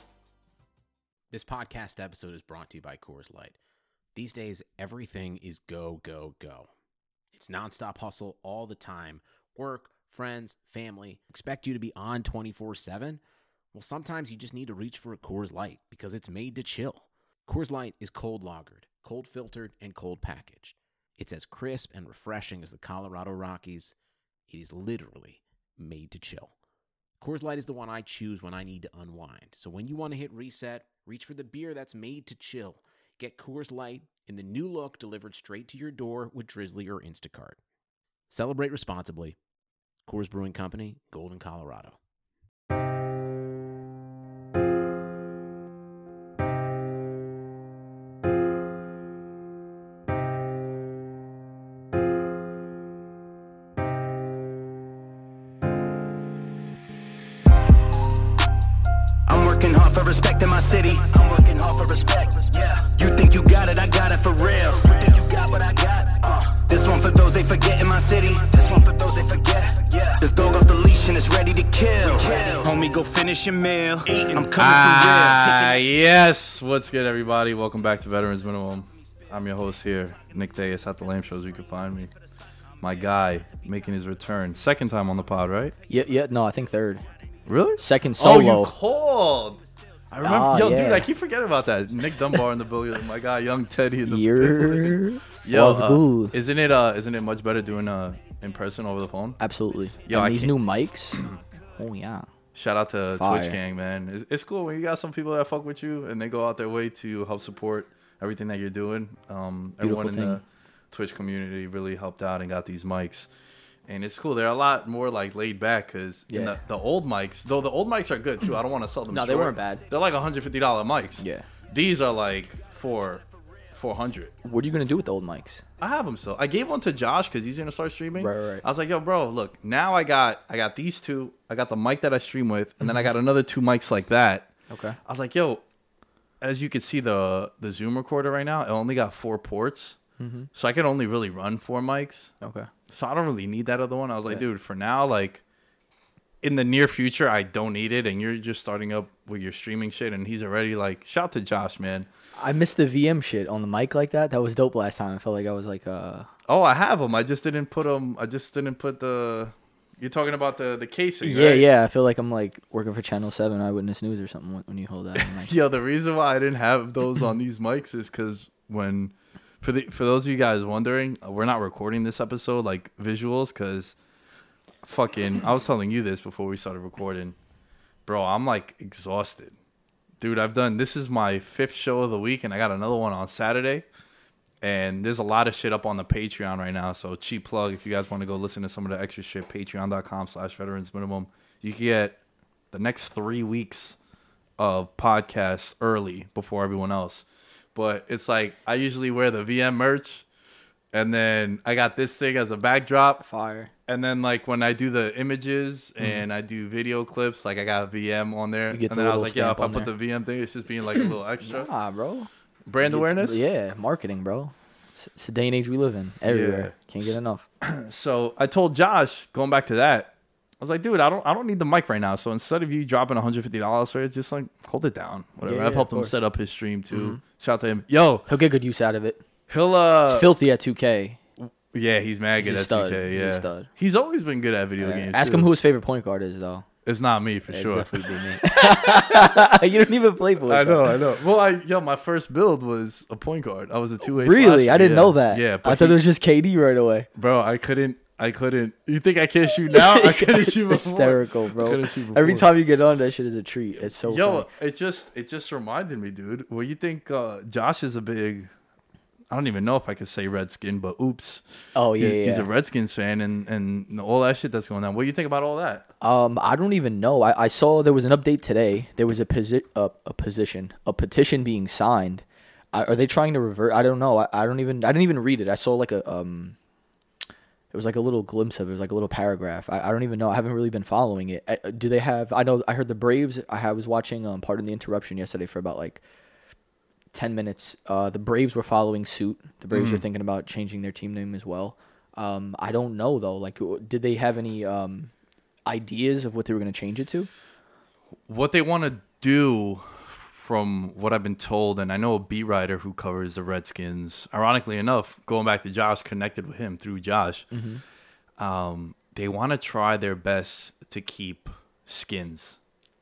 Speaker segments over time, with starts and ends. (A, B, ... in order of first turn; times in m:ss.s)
0:01.3-0:03.6 A
0:04.2-0:06.7 A
0:07.3-0:13.2 A
0:13.7-0:24.0 A
0:24.5-0:26.5 A
0:27.2-0:37.6 A
0:38.3-0:39.4 A
0:40.1-0:42.0 A
0:59.3-1:15.8 B
1:14.5-1:22.1 C
1:22.8-1:25.8 C
1:25.9-1:27.0 D
1:27.5-1:39.4 C
1:27.8-1:28.7 D
1:30.2-1:31.1 D
1:34.1-1:36.4 D
1:39.4-1:41.2 D
1:40.1-1:40.6 C
1:41.1-1:41.4 C
1:41.8-1:42.3 D
1:42.6-1:53.3 C
1:43.2-1:43.6 D
1:49.8-1:50.4 D
1:53.9-2:04.4 C
1:56.3-1:56.6 D
1:59.1-1:59.8 D
2:01.2-2:01.5 D
2:04.4-2:05.6 D
2:05.8-2:14.5 C
2:08.2-2:08.6 D
2:12.8-2:13.1 D
2:14.7-2:15.0 D
2:15.1-2:15.6 C
2:16.4-2:20.0 C
2:20.2-2:20.5 D
2:20.6-2:22.3 C
2:22.4-2:22.7 D
2:22.9-2:25.4 C
2:26.4-2:32.1 C
2:32.4-2:36.3 D
2:36.5-2:41.7 C
2:41.2-2:45.5 D
2:45.2-2:54.0 C
2:54.8-2:57.4 C
2:58.1-2:59.6 C
3:00.2-3:03.8 C
3:04.6-3:12.2 C
3:12.7-3:14.0 C
3:14.6-3:17.2 C
3:17.8-3:20.3 C
3:20.9-3:23.2 C
3:23.2-3:23.7 D
3:23.9-3:31.7 C
3:26.0-3:26.2 D
3:28.7-3:29.9 D
3:31.4-3:32.3 D
3:32.7-3:33.4 C
3:32.8-3:37.4 D
3:36.3-3:48.3 C
3:45.4-3:46.2 D
3:46.9-3:47.2 D
3:48.3-3:49.2 D
3:49.5-3:50.3 C
3:50.0-3:51.2 D
3:51.4-3:55.5 C
3:52.4-3:53.7 D
3:54.8-3:56.7 D
3:56.8-3:59.5 C
3:57.5-4:00.9 D
4:00.5-4:06.0 C
4:04.1-4:07.1 D
4:07.2-4:12.5 C
4:09.7-4:14.5 D
4:13.9-4:18.5 C
4:19.3-4:21.4 C
4:21.8-4:22.5 D
4:22.0-4:25.9 C
4:26.0-4:36.6 D
4:37.7-4:46.0 D
4:47.1-4:55.1 D
4:49.7-4:50.0 C
4:55.7-4:57.3 D
4:58.3-5:07.5 C
5:07.5-5:07.8 D
5:08.4-5:12.6 C